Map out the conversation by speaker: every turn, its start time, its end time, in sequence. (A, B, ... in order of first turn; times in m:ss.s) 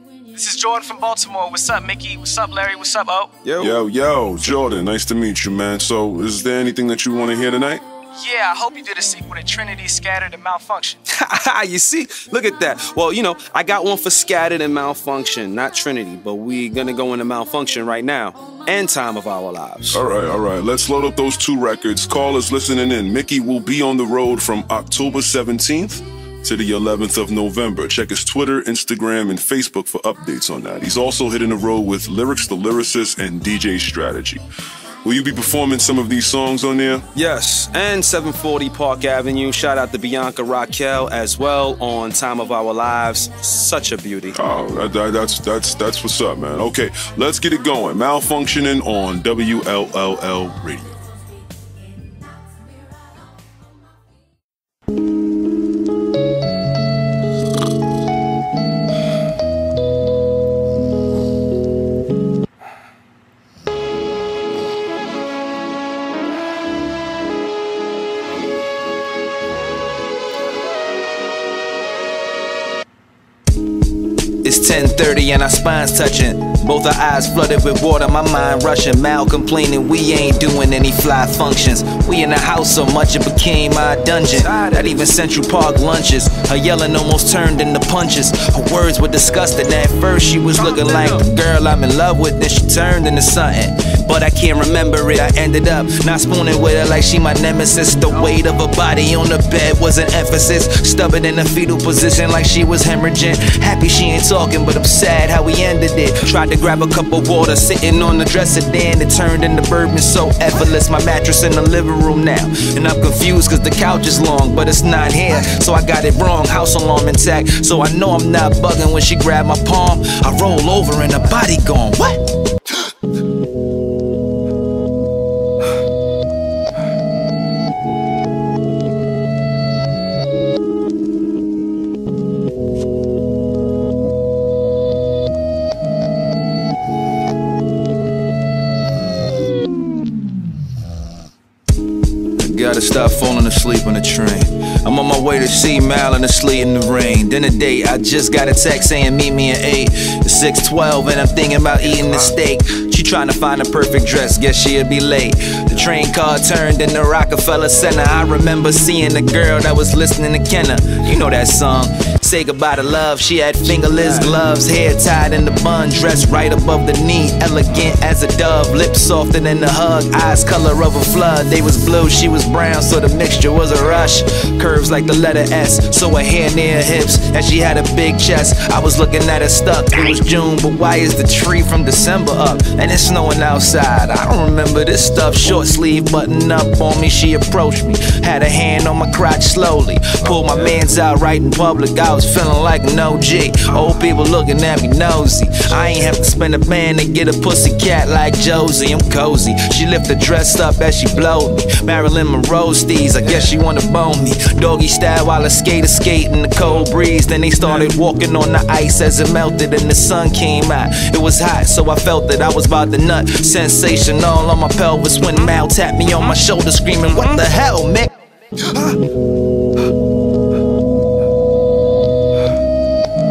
0:00.3-0:03.4 A
0:03.4-0:03.8 B
0:03.6-0:07.8 C
0:04.4-0:04.7 B
0:08.2-0:11.0 A
0:11.1-0:20.0 B
0:19.9-0:34.4 C
0:35.0-0:37.0 C
0:37.1-0:44.4 B
0:44.3-0:51.0 C
1:14.4-2:02.2 D
1:24.3-1:25.1 B
1:30.6-1:31.2 B
1:38.1-1:38.4 B
2:22.4-3:38.1 D
2:31.8-2:32.3 B
2:43.7-2:44.4 B
3:10.2-3:11.0 B
3:23.2-3:23.6 B
3:27.6-3:27.9 B